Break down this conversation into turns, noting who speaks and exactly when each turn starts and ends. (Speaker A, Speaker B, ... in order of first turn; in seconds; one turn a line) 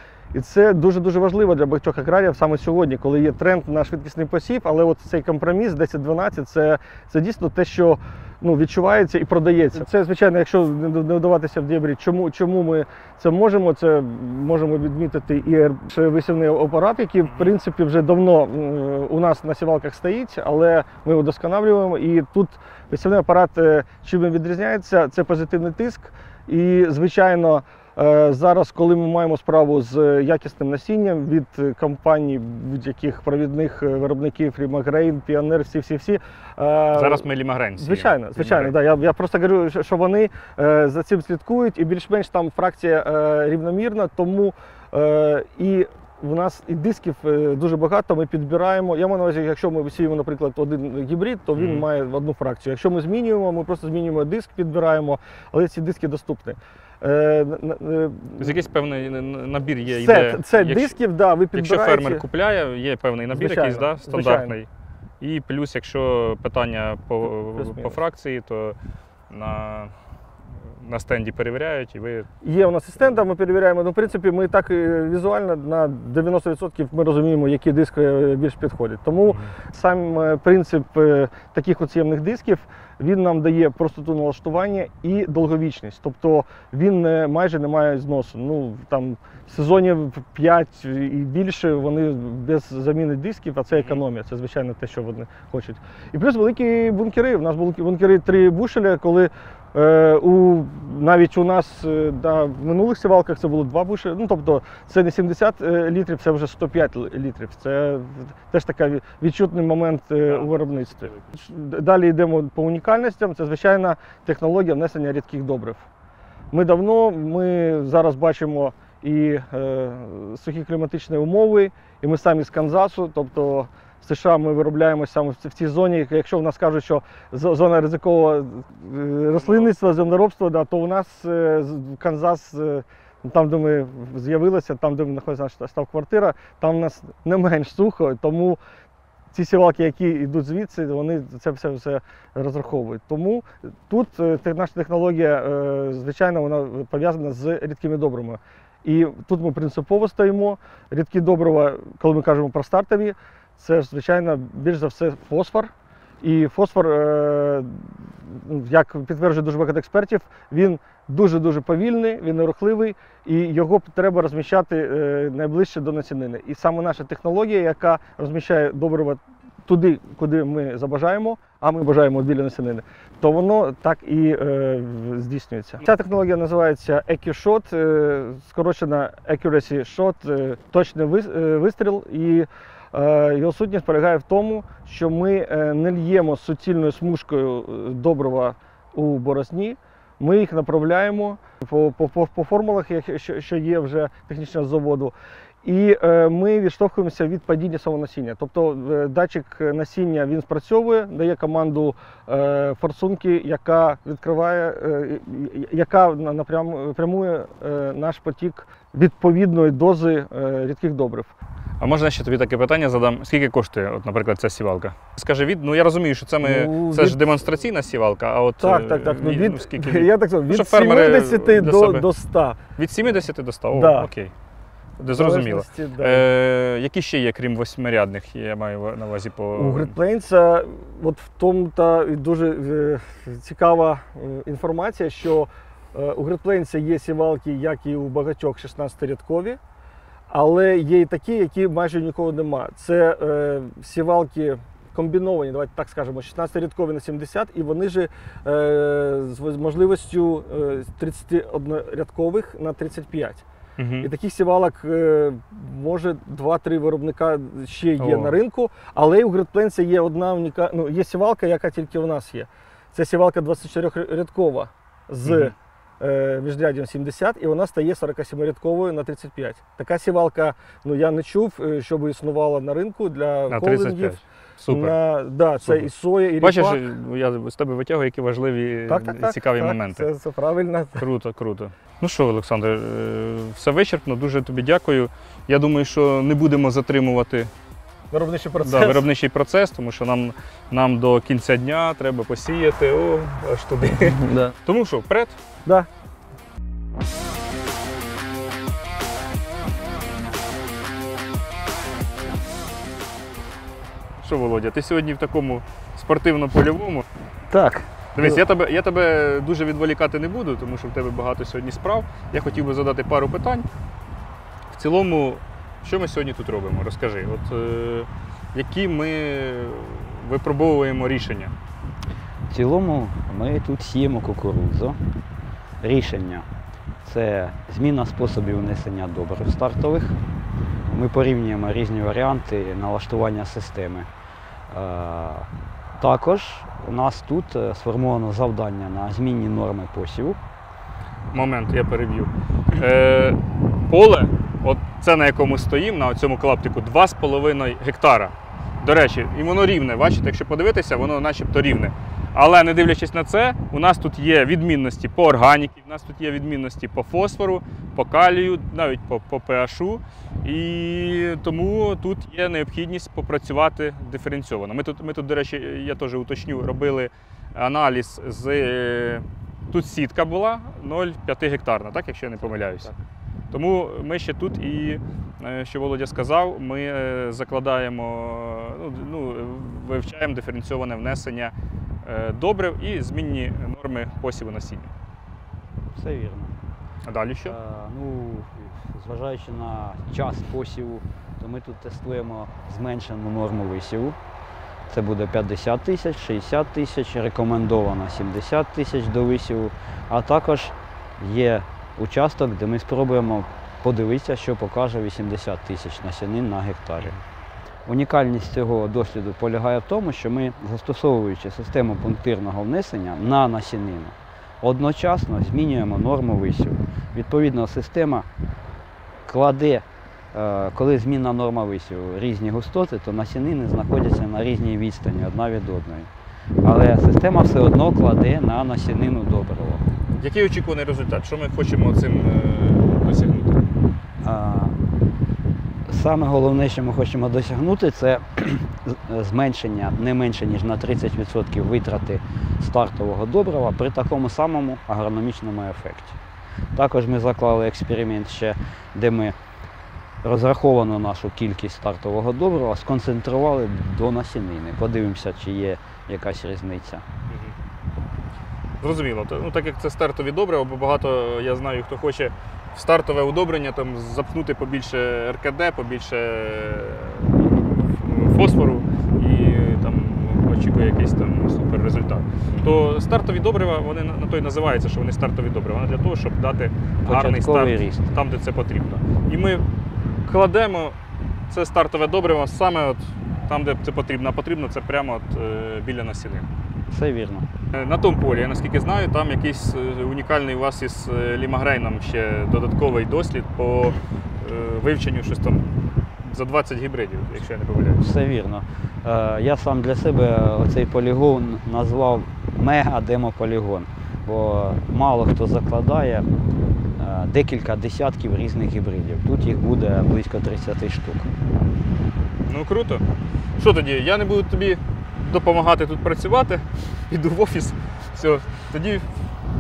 Speaker A: 0.3-58.5
Speaker B: 36.9-38.7
Speaker B: 51.6-51.9
Speaker B: 58.4-61.0
Speaker A: 59.9-62.2
Speaker B: 61.5-64.7
Speaker A: 63.3-64.5
Speaker B: 65.2-68.8
Speaker A: 67.5-68.0
Speaker B: 69.3-69.9
Speaker B: 70.8-72.3
Speaker A: 72.4-115.9
Speaker B: 93.7-94.0
Speaker B: 110.3-111.2
Speaker A: 116.5-138.6
Speaker B: 129.4-129.7
Speaker A: 139.3-211.3
Speaker B: 211.8-222.1
Speaker A: 216.4-217.2
Speaker A: 218.6-222.6
Speaker B: 222.8-224.3
Speaker A: 223.7-224.1
Speaker B: 225.0-229.9
Speaker A: 225.1-226.2
Speaker A: 229.5-239.6
Speaker A: 240.3-253.4
Speaker B: 253.8-254.1
Speaker A: 254.0-276.8
Speaker B: 258.0-258.4
Speaker B: 265.2-265.5
Speaker B: 273.5-274.9
Speaker B: 275.6-275.9
Speaker B: 276.4-280.1
Speaker A: 278.9-281.0
Speaker B: 281.0-287.5
Speaker A: 288.1-289.1
Speaker B: 288.6-295.4
Speaker A: 294.2-294.5
Speaker B: 304.2-307.1
Speaker C: 307.5-308.4
Speaker B: 308.1-313.7
Speaker B: 314.7-321.5
Speaker C: 322.5-325.0
Speaker C: 325.8-326.5
Speaker C: 327.0-330.2
Speaker C: 330.9-334.1
Speaker C: 334.7-335.5
Speaker C: 336.0-340.4
Speaker B: 341.3-372.9
Speaker C: 372.4-372.9
Speaker B: 373.5-384.9
Speaker C: 385.9-386.6
Speaker B: 387.0-387.6
Speaker C: 387.4-394.2
Speaker C: 394.9-407.2
Speaker C: 407.8-418.3
Speaker C: 419.2-426.1
Speaker C: 426.6-429.8
Speaker B: 430.1-433.7
Speaker C: 434.2-434.8
Speaker C: 435.9-446.2
Speaker C: 446.7-449.4
Speaker C: 450.2-457.0
Speaker B: 457.3-457.5
Speaker B: 458.8-481.0
Speaker C: 477.1-478.1
Speaker B: 481.5-486.5
Speaker C: 486.9-487.5
Speaker B: 487.7-498.0
Speaker C: 498.0-506.3
Speaker C: 506.9-511.3
Speaker B: 512.5-513.0
Speaker B: 513.6-519.1